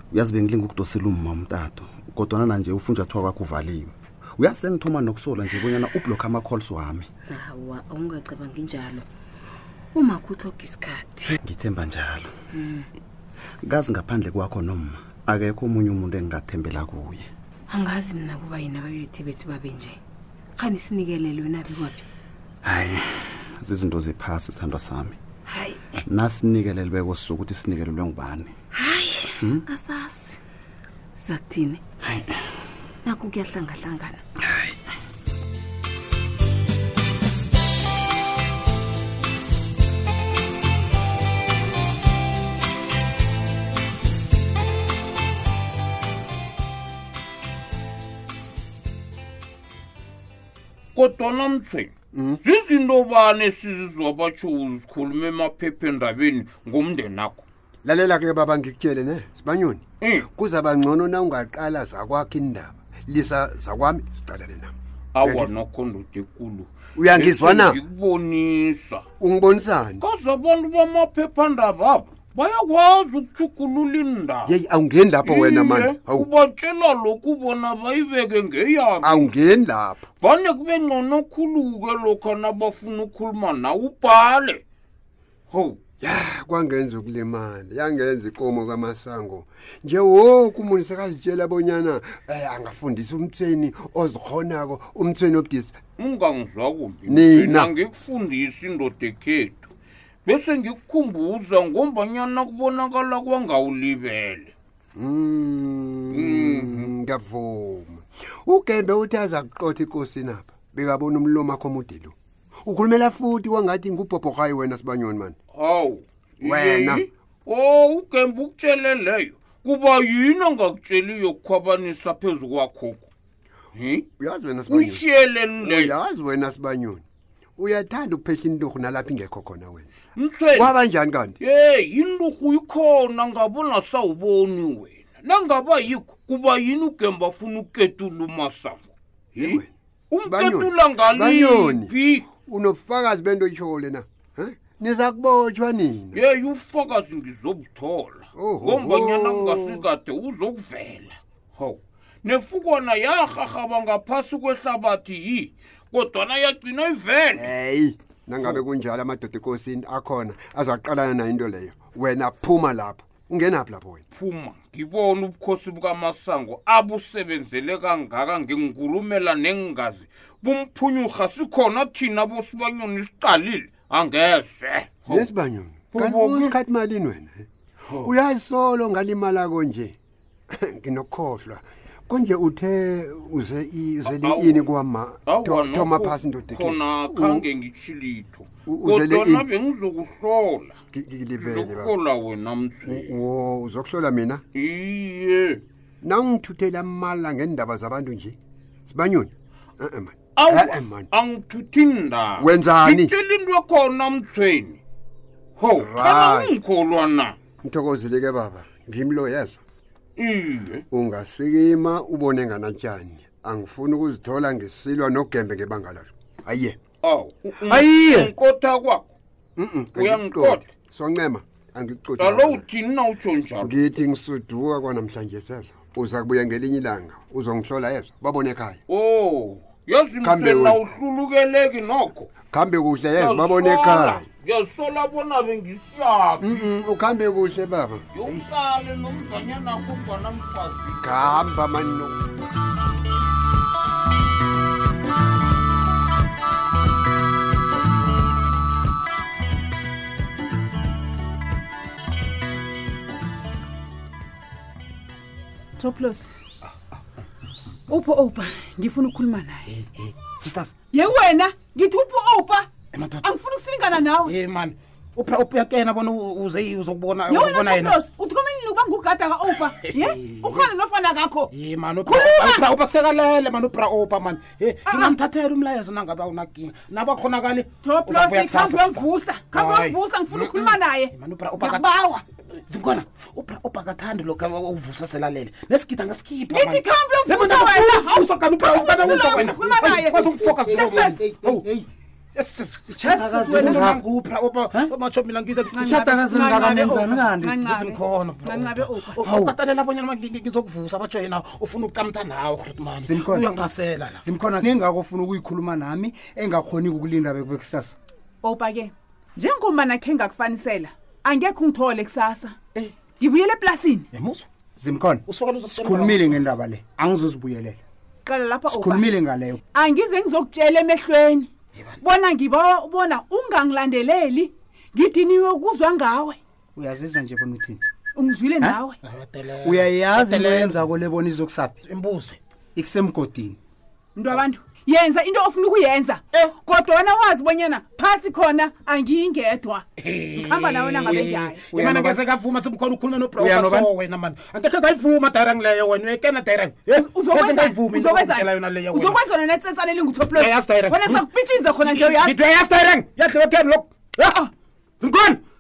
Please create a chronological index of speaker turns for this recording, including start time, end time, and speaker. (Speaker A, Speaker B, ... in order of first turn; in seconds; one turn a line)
Speaker A: 0.1-7.1
Speaker B: 7.3-9.1
Speaker B: 9.9-11.3
Speaker A: 11.4-12.3
Speaker B: 12.5-12.9
Speaker A: 13.6-17.3
Speaker B: 17.7-20.0
Speaker B: 20.6-22.0
Speaker A: 22.6-25.2
Speaker B: 25.5-26.0
Speaker A: 26.1-28.5
Speaker B: 28.8-30.4
Speaker A: 29.4-29.7
Speaker B: 31.2-31.8
Speaker B: 33.0-34.2
Speaker C: 51.0-57.5
Speaker D: 52.1-52.4
Speaker D: 57.8-65.5
Speaker C: 65.2-69.0
Speaker D: 67.0-67.8
Speaker D: 69.2-70.0
Speaker C: 70.0-74.5
Speaker D: 74.5-76.3
Speaker C: 75.2-79.3
Speaker D: 79.0-80.0
Speaker C: 80.2-84.6
Speaker C: 85.5-85.8
Speaker D: 86.0-95.8
Speaker C: 96.0-99.7
Speaker D: 97.1-97.7
Speaker C: 100.3-104.5
Speaker D: 105.0-115.4
Speaker C: 106.1-106.9
Speaker C: 115.5-123.1
Speaker D: 116.4-117.0
Speaker C: 123.8-124.1
Speaker D: 124.2-125.0
Speaker C: 124.7-125.9
Speaker D: 125.6-127.0
Speaker D: 127.6-129.9
Speaker C: 130.2-130.7
Speaker D: 130.5-131.4
Speaker C: 131.4-138.8
Speaker D: 139.3-139.7
Speaker C: 139.4-142.3
Speaker D: 140.2-141.9
Speaker D: 142.4-146.2
Speaker C: 146.1-157.5
Speaker D: 148.3-149.8
Speaker D: 157.3-164.0
Speaker C: 164.1-175.3
Speaker D: 175.1-177.5
Speaker C: 175.9-176.6
Speaker D: 178.0-180.0
Speaker D: 180.5-187.5
Speaker C: 184.1-184.7
Speaker C: 185.3-190.8
Speaker D: 188.7-189.5
Speaker D: 190.9-191.9
Speaker C: 191.4-193.1
Speaker D: 192.9-194.4
Speaker C: 194.5-195.6
Speaker D: 196.0-201.1
Speaker C: 200.4-204.8
Speaker D: 202.4-203.1
Speaker C: 205.6-207.4
Speaker D: 205.8-206.6
Speaker D: 207.6-209.6
Speaker C: 210.2-210.8
Speaker D: 210.9-216.8
Speaker C: 217.0-219.1
Speaker D: 217.6-218.3
Speaker D: 219.6-222.7
Speaker C: 219.9-220.7
Speaker C: 222.2-223.8
Speaker D: 223.6-228.8
Speaker C: 228.9-232.3
Speaker D: 230.2-230.8
Speaker D: 232.5-234.2
Speaker C: 233.2-236.6
Speaker D: 236.4-238.4
Speaker C: 238.1-241.5
Speaker D: 241.0-242.2
Speaker E: 255.8-256.3
Speaker E: 257.9-259.8
Speaker F: 259.7-260.8
Speaker E: 260.9-262.7
Speaker F: 262.9-263.3
Speaker E: 263.2-264.4
Speaker F: 264.2-268.0
Speaker E: 267.3-271.5
Speaker F: 269.5-270.7
Speaker F: 271.5-291.7
Speaker E: 272.0-272.7
Speaker E: 274.9-275.1
Speaker E: 277.8-282.0
Speaker E: 286.5-291.3
Speaker G: 289.0-291.9
Speaker F: 292.4-296.3
Speaker E: 293.0-293.9
Speaker G: 293.1-294.1
Speaker E: 295.7-299.3
Speaker G: 295.8-297.6
Speaker F: 297.6-304.2
Speaker G: 299.3-299.6
Speaker G: 303.0-303.5
Speaker G: 304.2-308.0
Speaker E: 308.4-312.6
Speaker E: 313.1-314.1
Speaker F: 314.1-314.5
Speaker G: 314.8-317.8
Speaker F: 315.3-316.5
Speaker E: 318.2-319.1
Speaker G: 318.7-319.6
Speaker E: 319.7-321.5
Speaker E: 322.0-326.4
Speaker G: 326.8-327.8
Speaker E: 328.2-329.0
Speaker F: 329.0-330.8
Speaker G: 329.6-331.7
Speaker F: 331.8-332.4
Speaker G: 332.8-333.6
Speaker E: 334.1-339.9
Speaker F: 340.0-349.2
Speaker E: 340.4-341.7
Speaker G: 341.7-342.2
Speaker G: 343.4-343.9
Speaker E: 346.9-352.4
Speaker F: 350.3-351.3
Speaker F: 351.8-354.4
Speaker F: 355.0-355.4